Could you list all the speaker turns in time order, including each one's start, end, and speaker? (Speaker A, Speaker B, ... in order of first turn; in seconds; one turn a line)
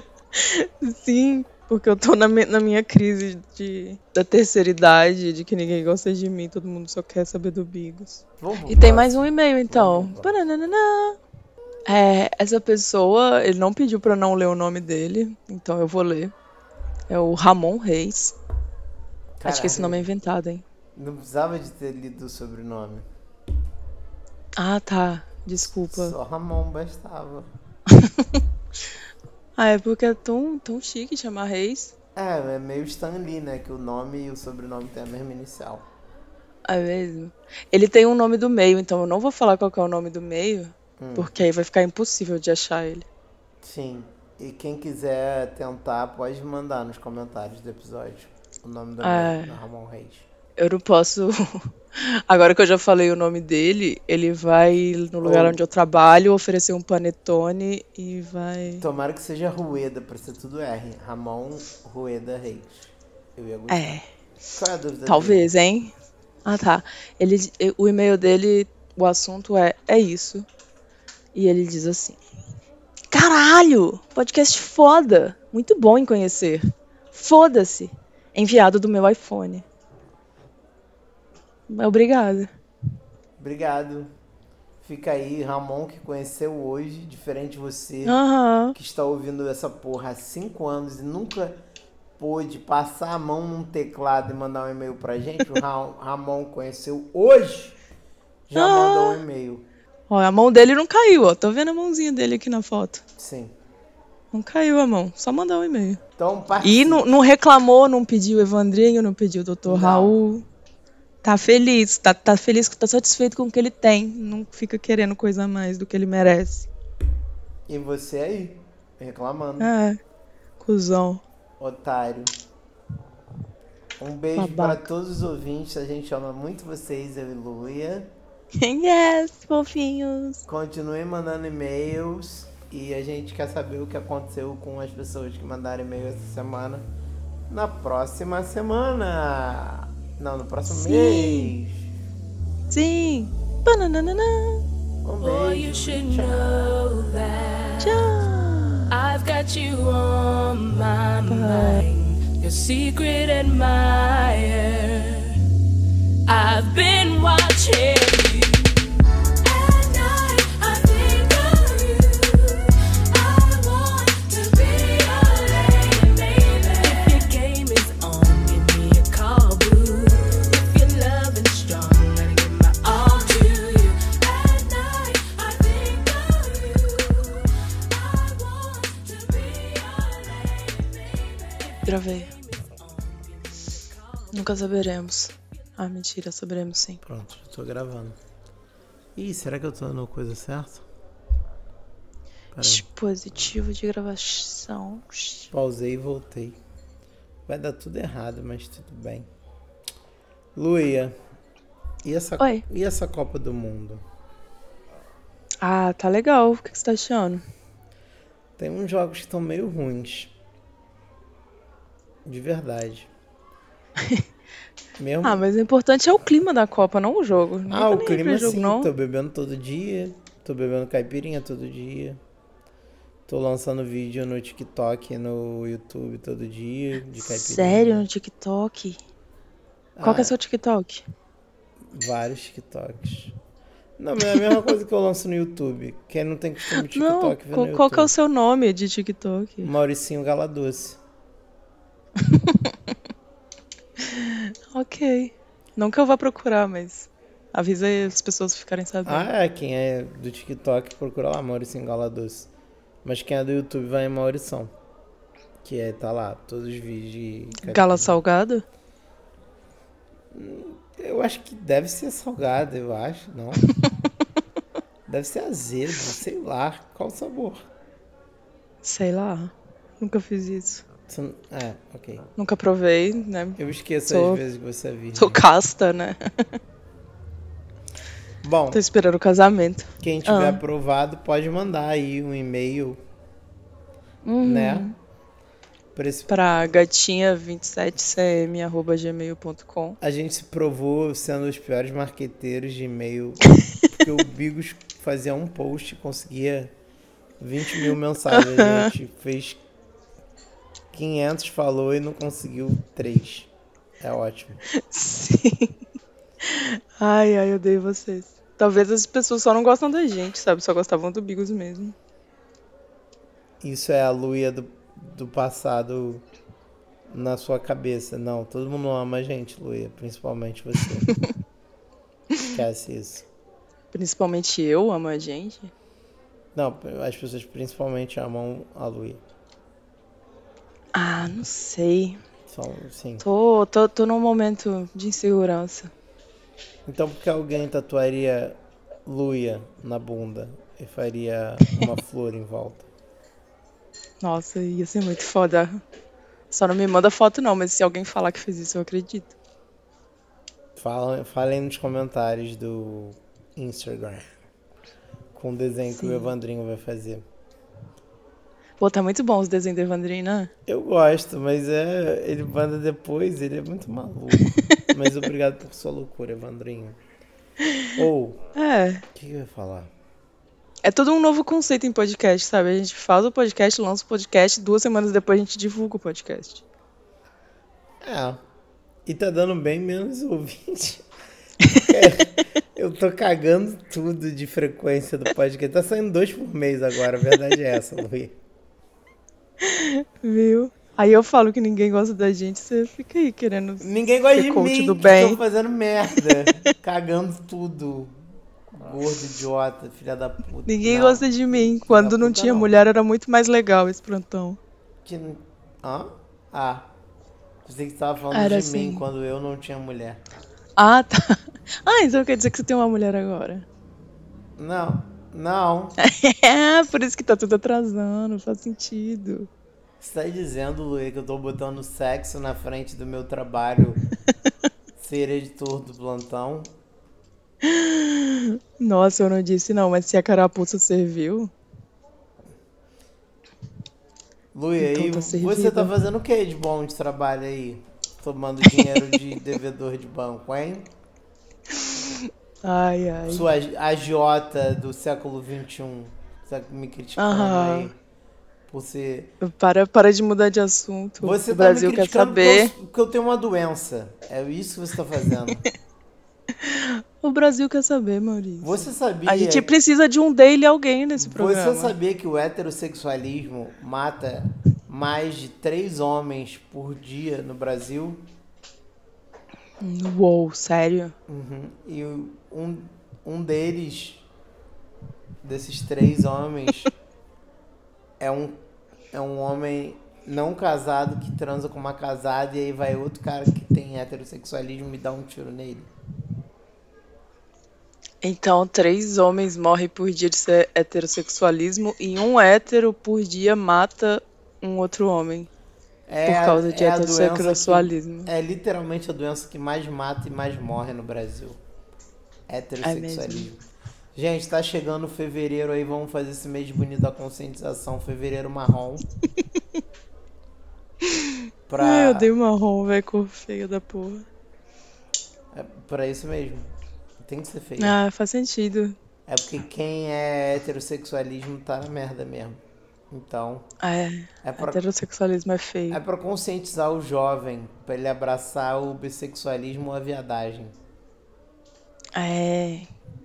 Speaker A: 0.3-11.2
Speaker B: 8.4-10.4
Speaker A: 11.9-16.3
Speaker A: 17.1-18.4
Speaker B: 19.4-20.1
Speaker A: 19.4-20.6
Speaker B: 21.0-23.1
Speaker A: 24.6-26.1
Speaker B: 25.9-27.5
Speaker A: 27.9-28.4
Speaker A: 29.6-31.9
Speaker B: 32.2-35.9
Speaker A: 36.7-43.1
Speaker B: 41.0-41.3
Speaker B: 43.6-50.3
Speaker A: 49.0-49.6
Speaker A: 50.6-58.8
Speaker B: 55.2-55.6
Speaker B: 58.8-63.8
Speaker A: 63.7-64.1
Speaker B: 64.5-65.5
Speaker A: 65.1-65.9
Speaker A: 66.5-70.5
Speaker A: 71.3-72.2
Speaker A: 73.1-79.7
Speaker A: 81.7-82.5
Speaker B: 83.4-84.1
Speaker B: 84.8-88.2
Speaker A: 88.0-88.8
Speaker B: 88.7-91.6
Speaker B: 92.2-97.8
Speaker B: 98.5-99.7
Speaker A: 98.5-99.2
Speaker A: 100.1-103.0
Speaker B: 103.2-103.5
Speaker A: 104.3-106.0
Speaker B: 106.2-107.0
Speaker A: 106.6-110.5
Speaker B: 109.7-110.2
Speaker A: 111.2-116.7
Speaker B: 117.7-119.7
Speaker A: 119.6-120.0
Speaker A: 120.6-121.2
Speaker B: 121.6-122.3
Speaker B: 124.0-128.1
Speaker A: 124.4-124.9
Speaker A: 128.6-130.4
Speaker B: 130.5-136.9
Speaker B: 137.5-141.9
Speaker A: 140.7-141.5
Speaker A: 142.7-144.6
Speaker B: 145.0-146.8
Speaker C: 145.2-148.3
Speaker A: 147.8-148.9
Speaker C: 148.9-155.4
Speaker A: 151.3-151.8
Speaker C: 156.3-158.7
Speaker C: 159.4-184.7
Speaker A: 181.8-182.3
Speaker A: 184.3-187.0
Speaker B: 187.0-188.2
Speaker B: 189.2-190.9
Speaker B: 192.5-192.9
Speaker A: 192.6-195.5
Speaker B: 195.5-196.6
Speaker B: 197.5-199.3
Speaker B: 200.6-201.2
Speaker B: 202.0-204.0
Speaker A: 205.6-207.4
Speaker B: 208.6-210.3
Speaker B: 212.2-213.1
Speaker B: 215.0-215.4
Speaker A: 215.2-218.9
Speaker B: 217.7-222.2
Speaker B: 223.3-228.1
Speaker A: 227.2-229.0
Speaker B: 230.0-230.4
Speaker A: 230.0-231.0
Speaker B: 231.8-233.4
Speaker B: 234.0-238.1
Speaker A: 236.8-239.7
Speaker B: 239.6-241.0
Speaker A: 242.2-242.9
Speaker A: 244.0-249.3
Speaker B: 249.1-252.5
Speaker B: 253.0-254.7
Speaker B: 255.6-258.2
Speaker A: 257.6-258.6
Speaker B: 260.3-263.7
Speaker B: 265.1-267.6
Speaker A: 268.8-270.8
Speaker B: 271.1-272.2
Speaker A: 272.4-274.4
Speaker B: 273.6-275.4
Speaker A: 275.1-276.2
Speaker B: 278.4-278.8
Speaker A: 278.7-280.6
Speaker B: 280.0-283.0
Speaker A: 284.2-284.9
Speaker B: 284.4-284.9
Speaker B: 285.9-286.4
Speaker A: 286.3-290.0
Speaker B: 290.0-296.7
Speaker B: 297.4-299.6
Speaker A: 298.3-298.9
Speaker B: 300.9-304.6
Speaker A: 304.7-305.8
Speaker A: 306.4-311.9
Speaker B: 313.6-316.2
Speaker B: 317.1-321.1
Speaker B: 322.5-323.3
Speaker A: 323.9-325.7
Speaker B: 326.6-329.2
Speaker A: 330.9-332.2
Speaker B: 332.5-333.3
Speaker A: 333.2-335.9
Speaker B: 336.9-342.9
Speaker A: 344.2-345.8
Speaker A: 346.5-349.3
Speaker B: 350.8-354.4
Speaker B: 355.3-357.3
Speaker A: 355.9-356.3
Speaker A: 358.8-360.5
Speaker B: 360.7-367.0
Speaker A: 364.5-364.9
Speaker A: 367.6-367.9
Speaker B: 368.0-368.4
Speaker A: 368.6-369.0
Speaker B: 369.1-369.9
Speaker A: 370.8-376.6
Speaker B: 378.0-378.4
Speaker B: 379.1-381.1
Speaker B: 381.8-388.4
Speaker A: 389.6-395.4
Speaker B: 393.8-398.2
Speaker B: 398.7-402.8
Speaker A: 400.7-404.6
Speaker B: 405.1-406.9
Speaker B: 407.6-410.2
Speaker A: 408.3-409.1
Speaker A: 410.8-413.7
Speaker B: 414.6-416.0
Speaker A: 416.0-419.5
Speaker B: 420.0-424.0
Speaker B: 425.0-426.7
Speaker A: 427.6-431.5
Speaker B: 434.5-440.9
Speaker A: 434.8-435.9
Speaker A: 441.7-443.5
Speaker B: 443.3-448.0
Speaker A: 447.2-447.9
Speaker B: 448.7-449.3
Speaker A: 449.4-452.7
Speaker B: 451.2-455.6
Speaker A: 456.6-461.9
Speaker B: 458.6-459.7
Speaker B: 461.2-468.2
Speaker A: 469.8-471.1
Speaker B: 471.3-474.3
Speaker B: 475.4-476.9
Speaker B: 478.2-478.6
Speaker B: 479.1-485.9
Speaker A: 488.2-495.5
Speaker B: 496.1-501.6
Speaker A: 496.3-498.3
Speaker B: 502.5-503.6
Speaker A: 502.8-503.5
Speaker B: 504.1-509.1
Speaker A: 511.0-514.3
Speaker B: 511.7-512.3
Speaker B: 515.5-518.0
Speaker A: 517.8-519.0
Speaker B: 519.3-523.7
Speaker A: 523.8-526.0
Speaker B: 524.4-524.9
Speaker B: 525.9-530.8
Speaker A: 532.1-532.9